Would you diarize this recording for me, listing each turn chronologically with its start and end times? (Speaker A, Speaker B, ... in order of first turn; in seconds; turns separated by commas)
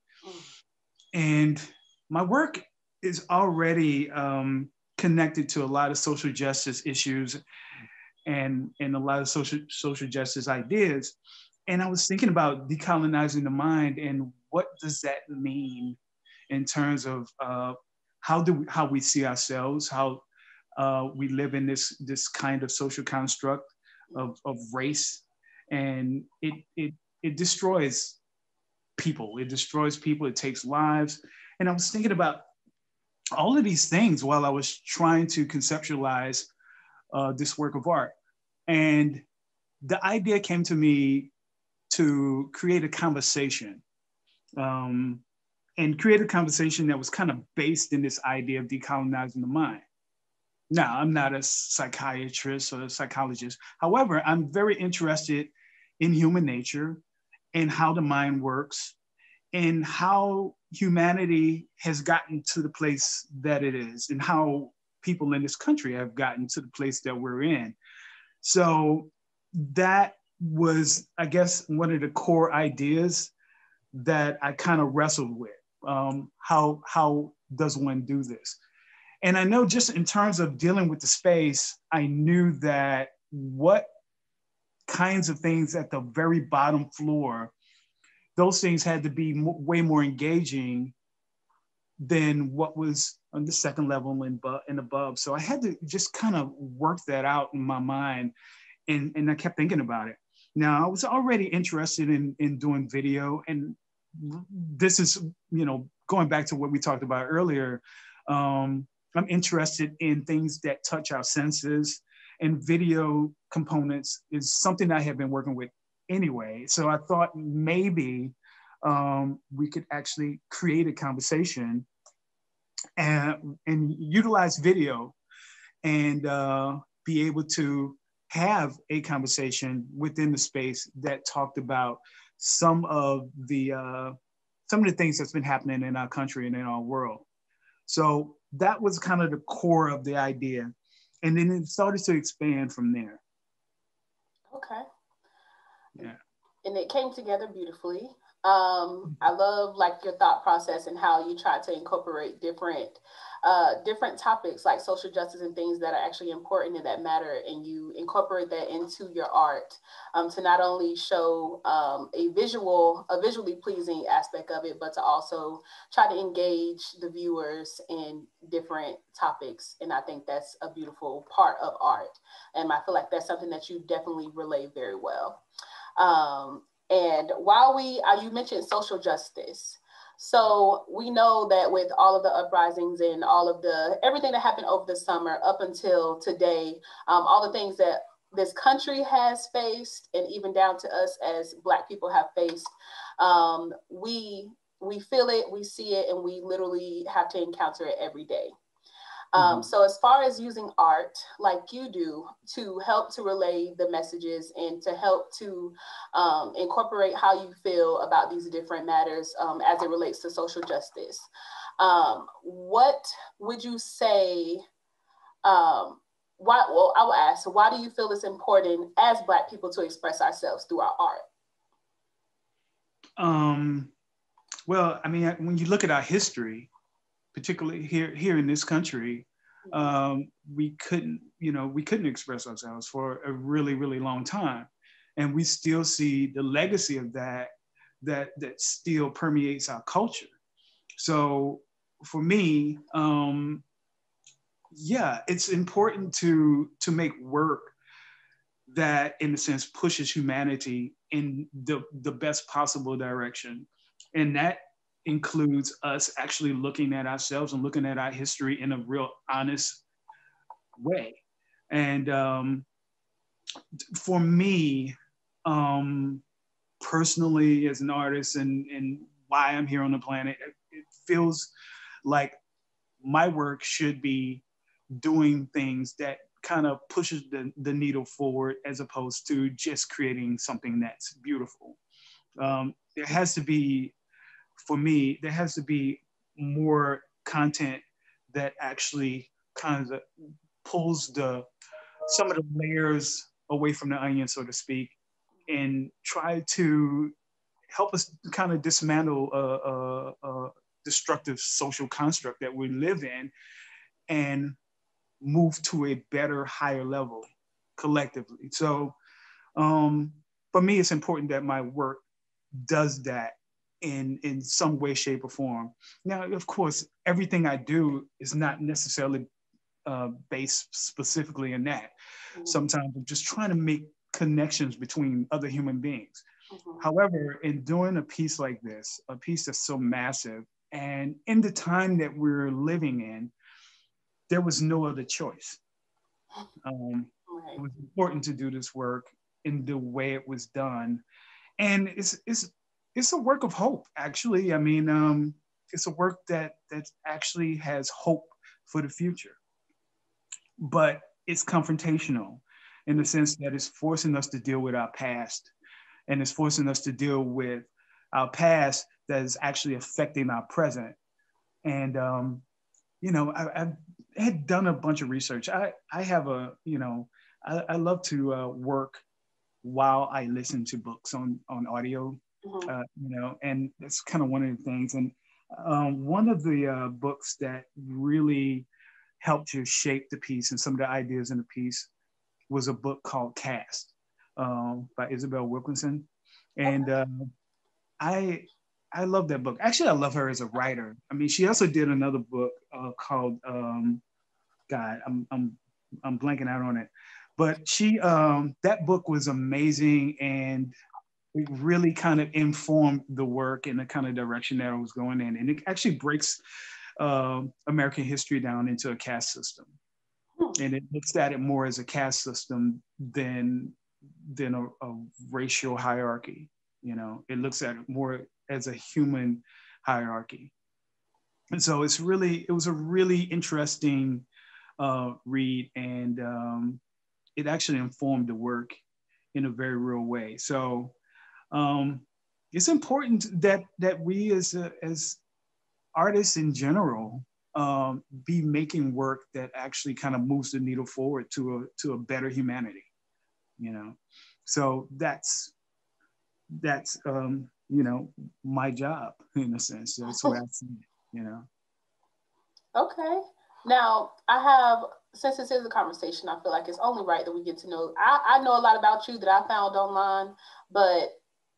Speaker A: 0.2-0.5, Speaker B: 1.1-7.4, Speaker B: 8.2-11.2, Speaker B: 11.7-16.0, Speaker B: 16.5-20.2, Speaker B: 20.8-28.2, Speaker B: 29.0-32.5, Speaker B: 33.4-36.5, Speaker B: 37.1-38.1, Speaker B: 38.7-39.2, Speaker B: 39.8-41.3, Speaker B: 41.9-43.8, Speaker B: 44.6-45.2, Speaker B: 45.8-49.8, Speaker B: 50.7-57.0, Speaker B: 57.5-59.0, Speaker B: 59.5-67.8, Speaker B: 68.4-73.3, Speaker B: 73.9-78.6, Speaker B: 79.2-83.9, Speaker B: 84.9-87.5, Speaker B: 88.3-90.9, Speaker B: 92.0-98.3, Speaker B: 98.9-121.9, Speaker B: 123.0-125.2, Speaker B: 125.8-134.1, Speaker B: 134.7-137.2, Speaker B: 137.9-140.7, Speaker B: 141.2-143.2, Speaker A: 144.5-144.8, Speaker A: 146.6-175.4, Speaker A: 176.0-198.5, Speaker A: 199.3-211.3, Speaker B: 199.3-199.7, Speaker A: 211.8-214.6, Speaker A: 215.4-221.2, Speaker B: 223.2-223.9, Speaker B: 224.7-226.7, Speaker B: 227.3-237.5, Speaker A: 229.7-229.9, Speaker B: 238.0-240.3, Speaker B: 241.0-243.6, Speaker B: 244.7-247.7, Speaker B: 248.7-259.8, Speaker B: 260.8-261.2, Speaker B: 261.7-262.6, Speaker B: 263.9-264.9, Speaker B: 265.4-266.2, Speaker B: 266.8-271.5, Speaker B: 272.1-272.3, Speaker B: 273.0-274.4, Speaker B: 275.0-281.8, Speaker B: 282.4-283.9, Speaker B: 284.6-290.0, Speaker B: 290.6-291.4, Speaker B: 292.1-294.9, Speaker B: 295.5-297.1, Speaker B: 297.7-303.3, Speaker B: 304.1-304.6, Speaker B: 305.2-308.9, Speaker B: 309.6-312.0, Speaker B: 312.6-319.3, Speaker B: 319.8-321.9, Speaker A: 322.4-322.6, Speaker B: 322.4-326.2, Speaker A: 326.5-326.8, Speaker B: 326.8-333.3, Speaker B: 334.3-335.6, Speaker B: 336.6-341.0, Speaker A: 337.3-337.6, Speaker B: 341.6-349.4, Speaker B: 350.6-355.5, Speaker B: 356.1-361.0, Speaker B: 361.6-362.4, Speaker B: 363.0-369.0, Speaker B: 369.6-378.7, Speaker A: 372.4-372.7, Speaker B: 379.2-381.9, Speaker B: 382.5-387.3, Speaker A: 386.6-386.9, Speaker B: 388.0-394.0, Speaker B: 394.7-400.7, Speaker B: 401.3-406.4, Speaker B: 407.0-409.7, Speaker B: 410.6-413.8, Speaker B: 414.3-420.5, Speaker B: 421.5-424.3, Speaker B: 424.8-426.8, Speaker B: 427.4-428.8, Speaker B: 429.3-430.9, Speaker B: 431.5-435.2, Speaker B: 435.9-442.9, Speaker B: 443.6-445.5, Speaker B: 446.6-451.5, Speaker A: 450.1-450.4, Speaker A: 452.8-461.1